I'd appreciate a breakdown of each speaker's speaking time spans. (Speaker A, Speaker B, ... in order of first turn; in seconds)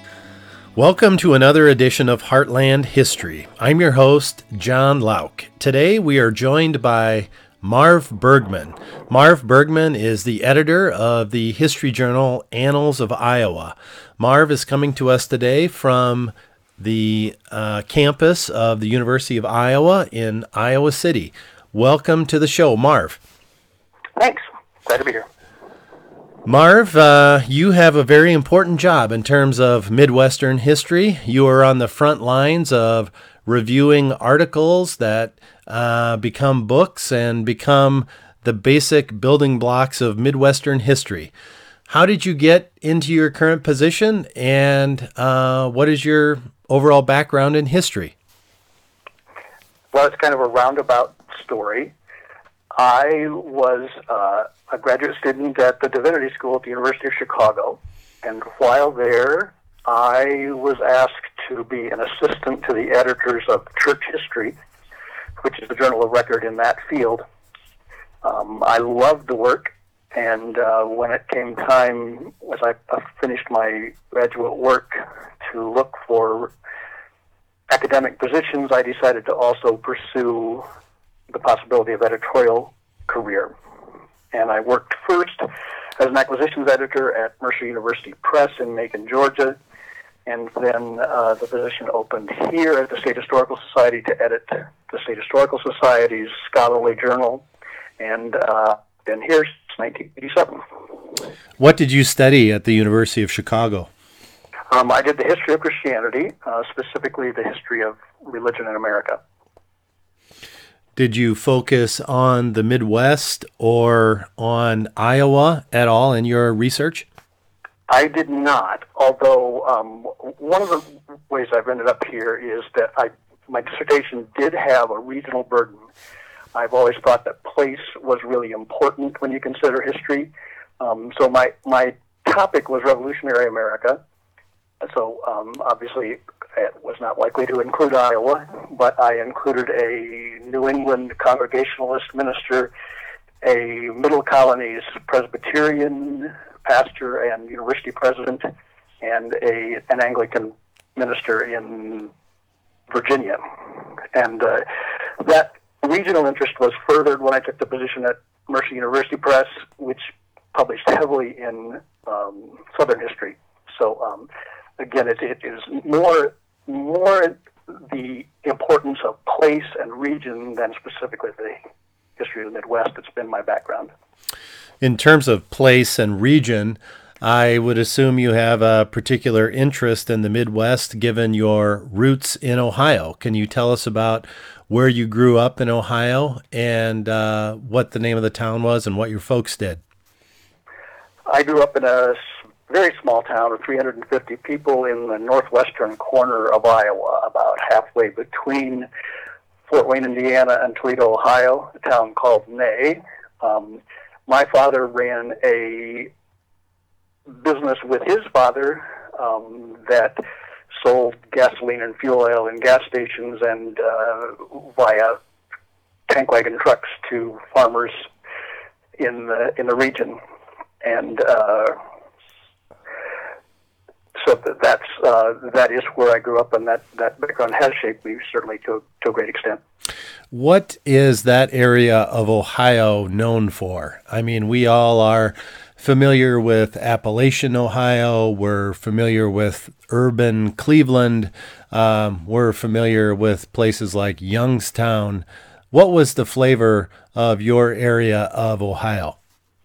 Speaker A: 0.8-23.2, 26.4-41.3, 41.9-48.1, 101.6-103.9, 111.0-117.1, 174.8-189.8, 230.3-249.2
Speaker B: 24.2-25.3, 49.9-51.9, 52.8-64.6, 65.4-67.2, 68.2-76.5, 77.7-80.7, 81.3-83.5, 84.3-89.6, 90.3-97.4, 98.0-100.6, 104.7-109.2, 117.9-125.8, 126.5-134.0, 134.8-142.7, 143.4-148.5, 149.0-152.1, 152.9-171.6, 172.2-173.9, 191.3-198.9, 199.7-206.1, 207.3-210.2, 210.7-215.2, 216.1-218.1, 219.0-220.2, 220.8-221.8, 224.2-229.6